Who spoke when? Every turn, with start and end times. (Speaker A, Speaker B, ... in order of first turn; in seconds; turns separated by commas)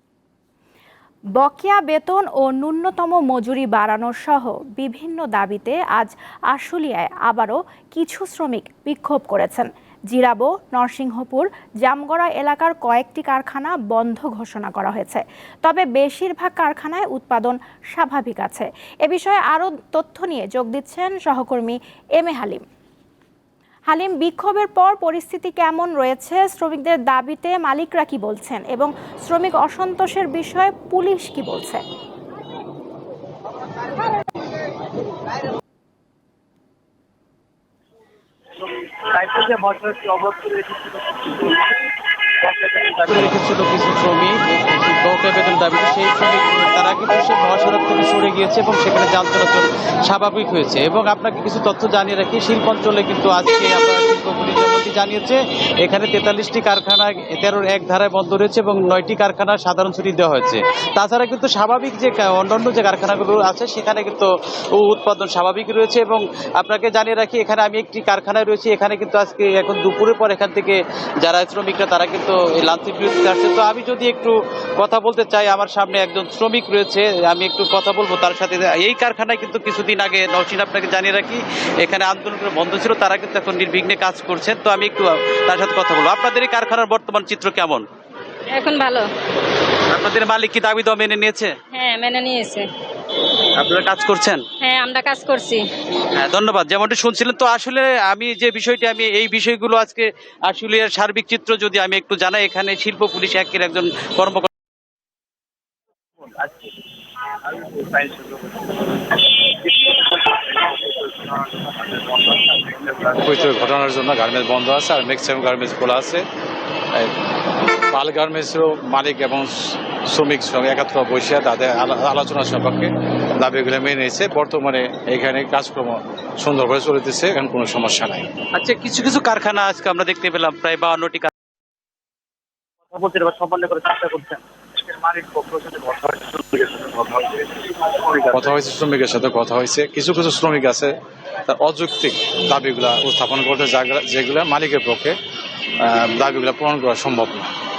Speaker A: 1.4-22.6, Speaker A: 23.9-31.8, Speaker B: 39.0-41.9, Speaker B: 42.4-43.3, Speaker C: 43.1-87.8, Speaker D: 88.5-89.1, Speaker C: 89.9-91.5, Speaker D: 91.7-92.7, Speaker C: 93.6-94.5, Speaker D: 94.6-95.7, Speaker C: 96.2-104.5, Speaker B: 106.2-106.7, Speaker B: 107.5-108.9, Speaker B: 109.5-113.2, Speaker E: 113.2-116.2, Speaker E: 117.9-119.5, Speaker E: 120.1-128.3, Speaker C: 128.6-131.3, Speaker B: 132.9-138.3, Speaker E: 138.3-140.9, Speaker E: 141.5-145.2, Speaker E: 145.8-147.5